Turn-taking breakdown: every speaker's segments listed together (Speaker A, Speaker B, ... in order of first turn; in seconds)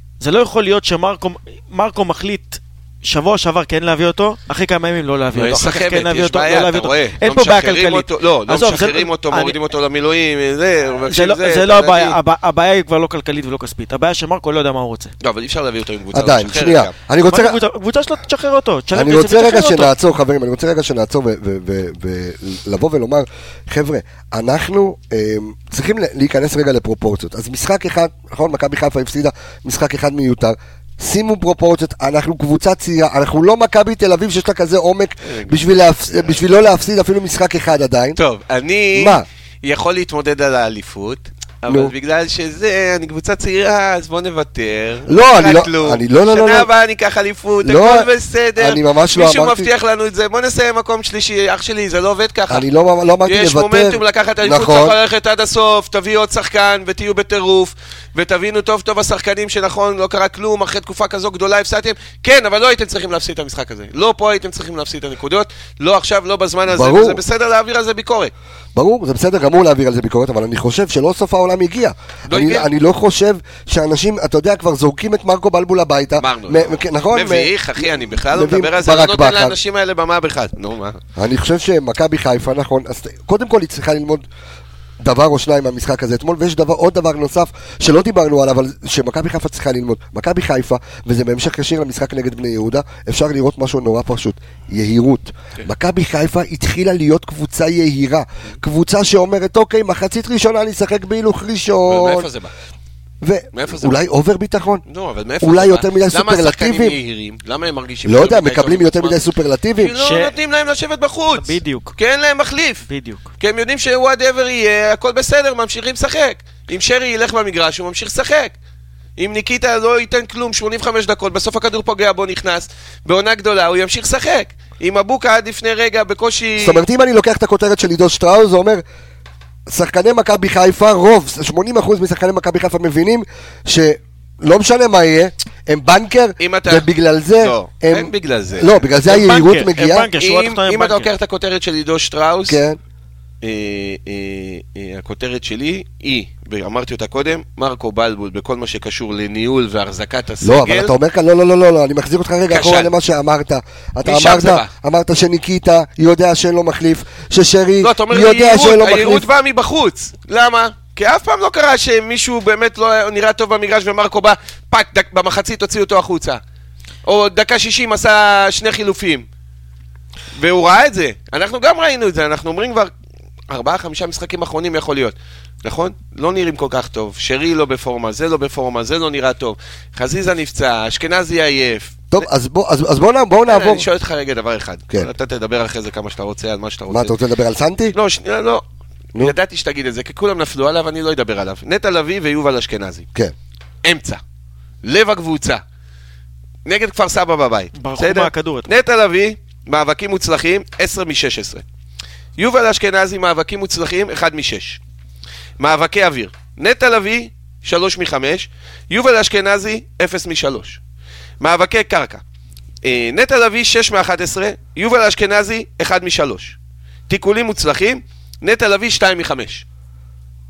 Speaker A: 0.2-9.6, 11.1-15.1, 17.3-19.9, 110.0-110.3, 111.3-111.9, 112.9-113.2, 139.1-141.1, 197.8-198.7
Speaker B: 5.3-12.2, 15.2-16.9, 35.2-36.4, 38.2-52.6, 53.2-68.3, 72.3-72.7, 76.2-81.0, 101.9-102.5, 103.5-104.0, 104.9-109.2, 109.8-112.8, 113.4-118.5, 119.2-126.8, 136.4-138.8, 140.2-142.6, 143.4-150.9, 152.5-152.9, 154.0-154.7, 157.8-166.4, 167.0-169.2, 170.3-172.9, 173.5-182.3, 183.5-187.1, 187.9-188.6, 189.2-193.1, 193.8-194.2, 194.8-195.6, 196.7-201.6, 202.4-204.8, 205.6-210.8, 211.4-212.2, 212.8-216.6, 217.1-219.6
Speaker C: 16.1-17.6, 18.9-38.2, 38.9-39.2, 41.7-41.9, 45.1-46.7, 47.6-49.7, 52.5-55.0, 66.7-67.2, 68.7-79.6, 81.2-84.2, 85.0-102.3, 103.2-104.8, 105.4-107.0, 108.0-109.9, 126.6-128.8, 129.7-140.1, 142.5-142.8, 150.4-159.2, 182.1-183.9, 186.9-187.9